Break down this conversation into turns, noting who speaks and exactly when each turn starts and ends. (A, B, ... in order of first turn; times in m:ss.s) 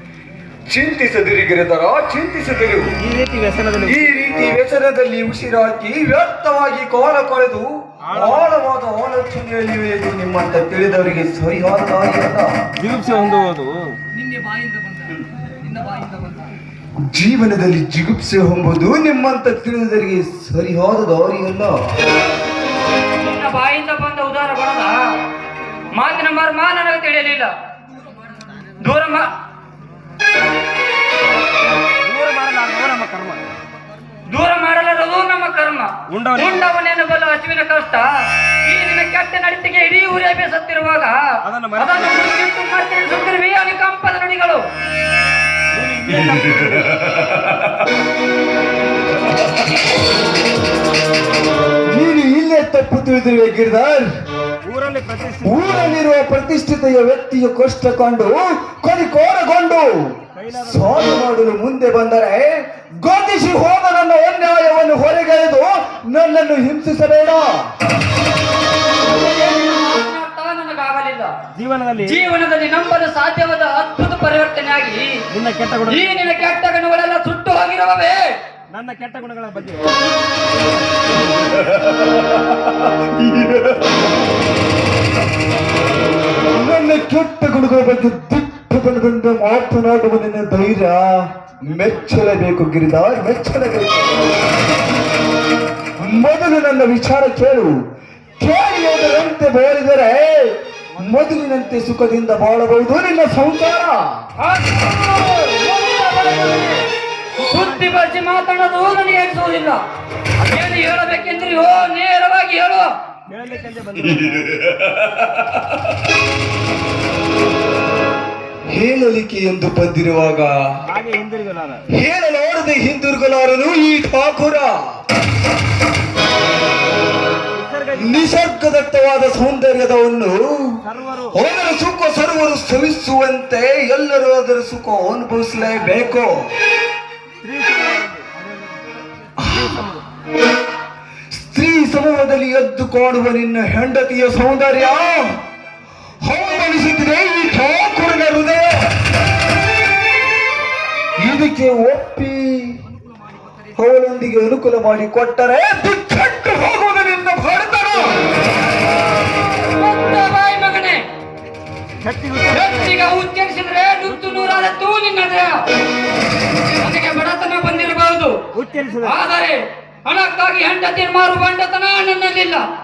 0:00.6-0:03.0 A
0:03.0-0:04.2 B
0:03.8-0:12.5 A
0:08.0-0:08.5 B
0:12.8-0:14.0 B
0:17.0-0:21.9 A
0:23.2-0:25.2 C
0:25.9-0:27.5 C
0:28.8-0:29.3 C
0:32.0-0:33.5 B
0:34.3-0:44.6 C
0:36.1-0:36.6 B
0:41.4-0:42.1 B
0:45.7-0:47.1 B
0:51.8-0:54.1 A
0:54.6-0:55.6 B
0:55.4-1:07.7 A
1:00.4-1:00.8 B
1:09.0-1:11.4 C
1:11.5-1:12.2 B
1:12.0-1:15.2 C
1:15.3-1:16.4 B
1:15.9-1:18.4 C
1:18.7-1:19.9 B
1:23.2-1:23.5 A
1:26.5-1:34.2 A
1:36.0-1:37.8 A
1:38.4-1:44.3 A
1:44.4-1:46.8 C
1:47.4-1:49.8 C
1:50.4-1:52.9 C
1:53.3-1:54.8 B
1:58.7-2:00.8 A
2:00.8-2:01.9 B
2:01.9-2:05.0 A
2:07.5-2:08.3 B
2:07.9-2:16.5 A
2:10.8-2:11.3 B
2:17.4-2:18.5 B
2:19.4-2:19.8 A
2:19.5-2:20.0 B
2:21.3-2:25.4 A
2:26.2-2:28.9 A
2:31.2-2:32.8 A
2:33.7-2:38.1 A
2:38.9-2:41.0 C
2:42.0-2:42.8 B
2:42.5-2:45.6 C
2:46.8-2:48.4 C
2:48.5-2:49.2 B
2:49.0-2:52.6 C